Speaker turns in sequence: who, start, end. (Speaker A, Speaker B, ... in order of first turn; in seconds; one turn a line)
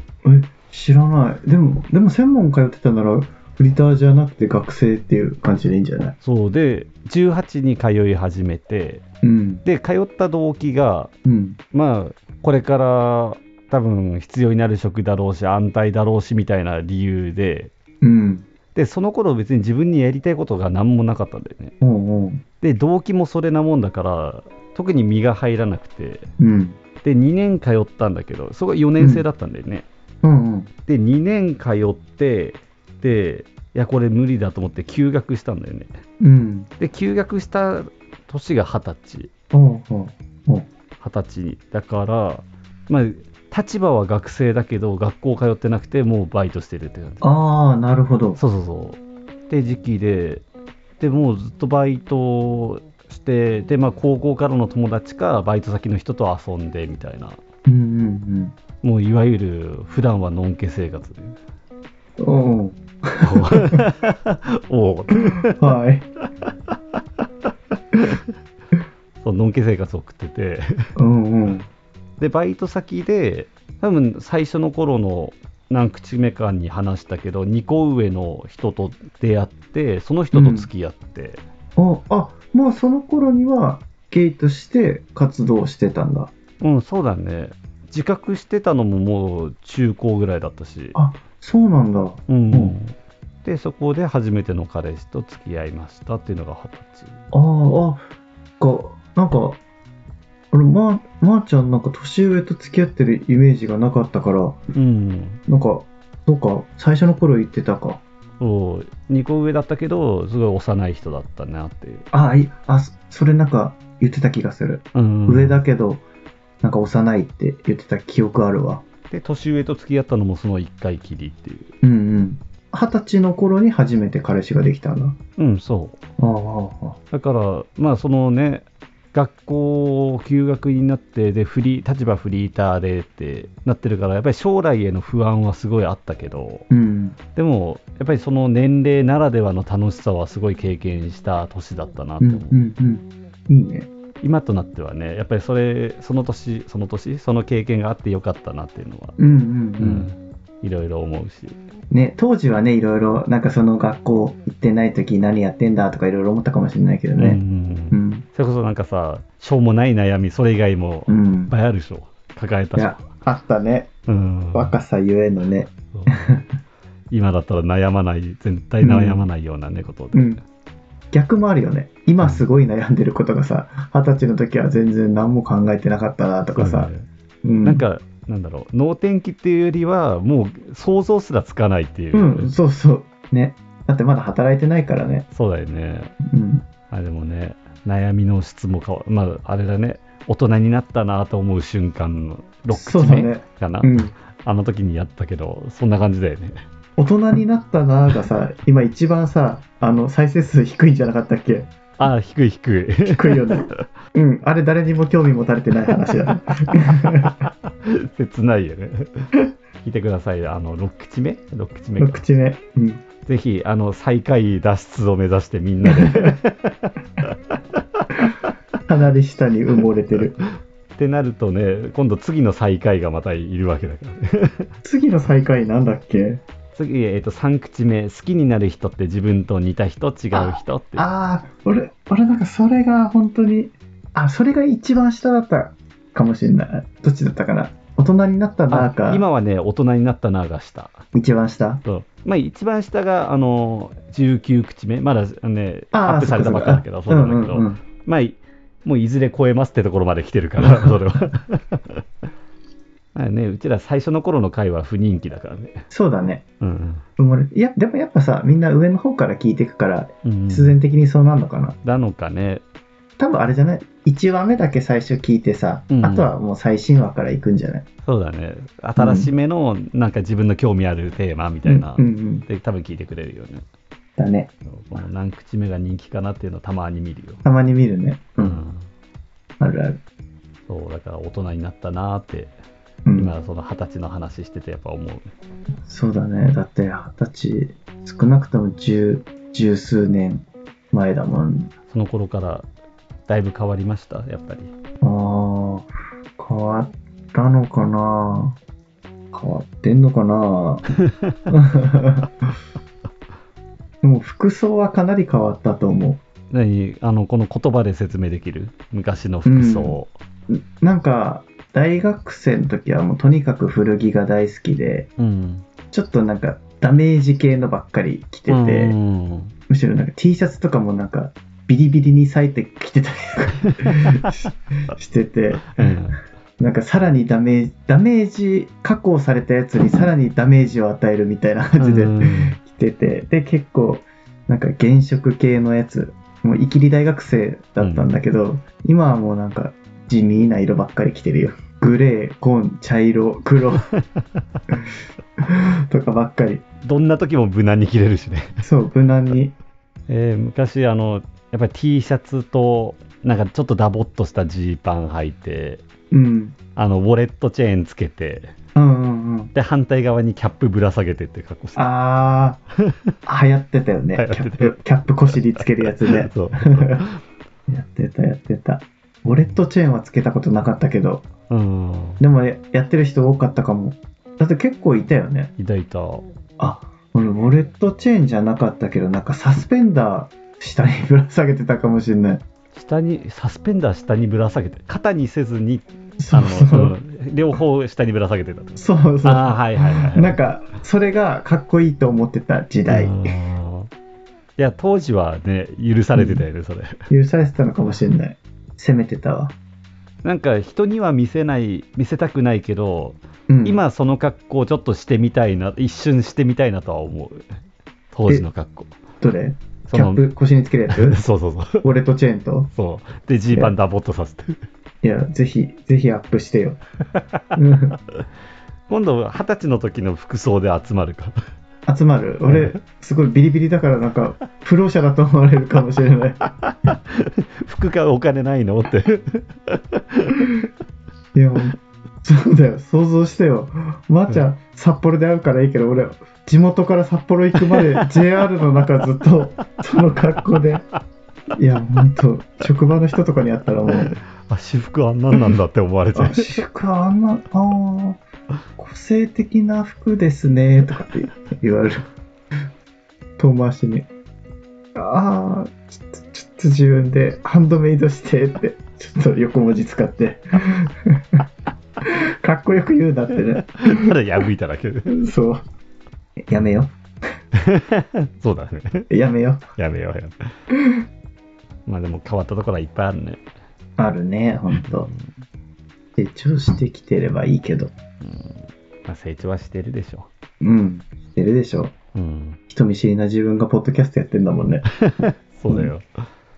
Speaker A: 0.2-6.1
Speaker B: 6.2-9.0
Speaker A: 9.2-9.6
Speaker B: 9.6-11.1
Speaker A: 11.2-11.6
Speaker B: 11.7-17.7
Speaker A: 18.0-18.4
Speaker B: 18.7-21.7
Speaker A: 21.8-22.4
Speaker B: 22.6-26.3
Speaker A: 26.4-26.8
Speaker B: 27.0-29.9
Speaker A: 29.0-29.2
Speaker A: 30.2-30.7
Speaker B: 30.9-36.0
Speaker A: 36.2-36.7
Speaker B: 36.8-39.3
Speaker A: 39.5-40.7
Speaker B: 41.0-47.2
Speaker A: 47.2-48.4
Speaker B: 48.4-50.4
Speaker B: 51.0-57.4
Speaker A: 57.6-58.5
Speaker B: 58.8-61.4
Speaker A: 62.2-63.8
Speaker B: 63.2-65.5
Speaker A: 65.5-66.0
Speaker B: 67.9-68.2
Speaker B: 69.2-70.7
Speaker A: 71.0-71.7
Speaker B: 72.2-81.4
Speaker A: 80.3-80.7
Speaker A: 81.8-86.3
Speaker B: 86.6-91.0
Speaker A: 90.9-92.8
Speaker B: 92.3-97.1
Speaker A: 97.3-98.0
Speaker A: 98.6-99.6
Speaker A: 100.5-104.6
Speaker B: 104.7-105.4
Speaker A: 105.5-108.0
Speaker B: 108.4-112.0
Speaker A: 112.1-116.0
Speaker B: 114.9-115.6
Speaker A: 116.6-118.8
Speaker B: 119.1-121.7
Speaker A: 121.8-125.2
Speaker B: 125.4-126.0
Speaker A: 126.2-127.0
Speaker B: 127.1-136.7
Speaker A: 136.7-137.2
Speaker B: 137.3-142.6
Speaker A: 142.2-143.9
Speaker B: 144.2-149.2
Speaker A: 149.2-150.1
Speaker B: 149.8-151.6
Speaker A: 151.9-157.4
Speaker B: 157.2-163.1
Speaker A: 157.9-158.2
Speaker A: 161.1-161.5
Speaker A: 162.8-163.9
Speaker B: 164.1-164.8
Speaker A: 164.5-166.4
Speaker B: 165.9-166.2
Speaker B: 167.1-170.4
Speaker A: 168.8-169.2
Speaker A: 170.1-170.4
Speaker A: 171.1-176.9
Speaker B: 176.5-177.0
Speaker A: 177.4-177.8
Speaker B: 177.6-182.5
Speaker A: 182.1-185.3
Speaker B: 185.3-186.1
Speaker A: 186.2-186.7
Speaker B: 186.9-196.6
Speaker A: 192.7-194.1
Speaker A: 197.0-201.7
Speaker B: 202.0-203.7
Speaker A: 203.0-207.4
Speaker B: 207.8-209.3
Speaker B: 209.8-212.2
Speaker A: 212.0-213.0
Speaker B: 213.2-217.3
Speaker A: 215.9-216.3
Speaker B: 217.9-218.3
Speaker A: 218.9-220.3
Speaker B: 221.0-224.7
Speaker A: 224.8-226.4
Speaker B: 226.7-231.1
Speaker A: 230.3-239.2
Speaker B: 238.7-241.0
Speaker A: 241.1-241.8
Speaker B: 241.8-252.0
Speaker A: 245.9-247.8
Speaker A: 250.6-251.0
Speaker B: 253.1-255.8
Speaker A: 255.9-256.4
Speaker B: 256.6-257.0
Speaker A: 257.2-261.8
Speaker B: 260.2-260.8
Speaker B: 261.8-262.6
Speaker A: 263.2-267.9
Speaker B: 265.9-266.3
Speaker B: 268.1-273.6
Speaker A: 269.0-269.3
Speaker A: 271.6-272.4
Speaker A: 274.2-274.5
Speaker B: 274.7-277.4
Speaker A: 277.4-278.6
Speaker B: 278.4-278.9
Speaker A: 279.6-280.0
Speaker B: 280.7-282.5
Speaker A: 283.0-283.3
Speaker B: 283.1-285.3
Speaker A: 285.9-291.7
Speaker B: 291.9-292.7
Speaker B: 293.3-294.7
Speaker A: 295.0-298.6
Speaker A: 299.3-300.8
Speaker B: 301.1-301.4
Speaker A: 301.5-302.5
Speaker A: 304.0-306.2
Speaker B: 306.5-310.1
Speaker A: 309.4-309.9
Speaker A: 310.5-315.1
Speaker B: 315.2-315.6
Speaker A: 315.9-318.9
Speaker B: 318.5-319.5
Speaker A: 319.7-326.0
Speaker B: 323.8-324.2
Speaker B: 325.8-326.2
Speaker A: 326.6-343.9
Speaker B: 331.8-332.6
Speaker B: 337.8-338.1
Speaker B: 343.9-344.2
Speaker A: 345.4-346.6
Speaker B: 346.8-348.6
Speaker A: 348.6-349.5
Speaker B: 350.1-355.9
Speaker A: 356.1-356.6
Speaker B: 356.8-358.5
Speaker A: 358.7-359.5
Speaker B: 359.5-361.8
Speaker A: 361.8-362.6
Speaker B: 362.9-363.1
Speaker A: 363.2-367.0
Speaker B: 364.1-364.8
Speaker B: 365.6-367.2
Speaker A: 367.7-371.2
Speaker B: 371.5-372.2
Speaker A: 372.2-375.5
Speaker B: 375.6-376.2
Speaker A: 376.6-382.4
Speaker B: 382.7-390.4
Speaker A: 386.2-386.9
Speaker A: 388.8-393.3
Speaker B: 392.9-393.9
Speaker B: 394.6-397.0
Speaker A: 396.1-396.4
Speaker A: 397.1-399.5
Speaker B: 400.2-407.5
Speaker A: 403.5-403.8
Speaker B: 408.1-408.9
Speaker A: 409.2-411.2
Speaker B: 409.9-410.2
Speaker B: 410.9-411.9
Speaker A: 411.8-412.7
Speaker B: 412.7-414.6
Speaker A: 415.0-416.8
Speaker B: 417.1-417.4
Speaker A: 417.5-418.0
Speaker B: 418.9-421.4
Speaker A: 421.9-426.4
Speaker B: 422.4-422.8
Speaker B: 426.6-430.6
Speaker A: 431.3-440.8
Speaker B: 437.6-438.1
Speaker A: 441.5-444.1
Speaker B: 444.5-446.6
Speaker A: 446.1-448.2
Speaker A: 448.8-452.0
Speaker A: 453.4-454.1
Speaker A: 454.9-461.4
Speaker A: 462.0-464.1
Speaker B: 463.8-465.1
Speaker A: 465.1-465.6
Speaker A: 466.5-466.9
Speaker B: 467.5-469.1
Speaker A: 469.1-469.6
Speaker B: 469.8-470.4
Speaker A: 470.7-471.0
Speaker B: 471.9-473.4
Speaker A: 474.0-475.1
Speaker B: 474.7-475.3
Speaker A: 476.1-477.9
Speaker B: 478.2-480.3
Speaker A: 480.6-481.9
Speaker B: 482.1-482.6
Speaker A: 482.7-484.9
Speaker B: 485.0-486.0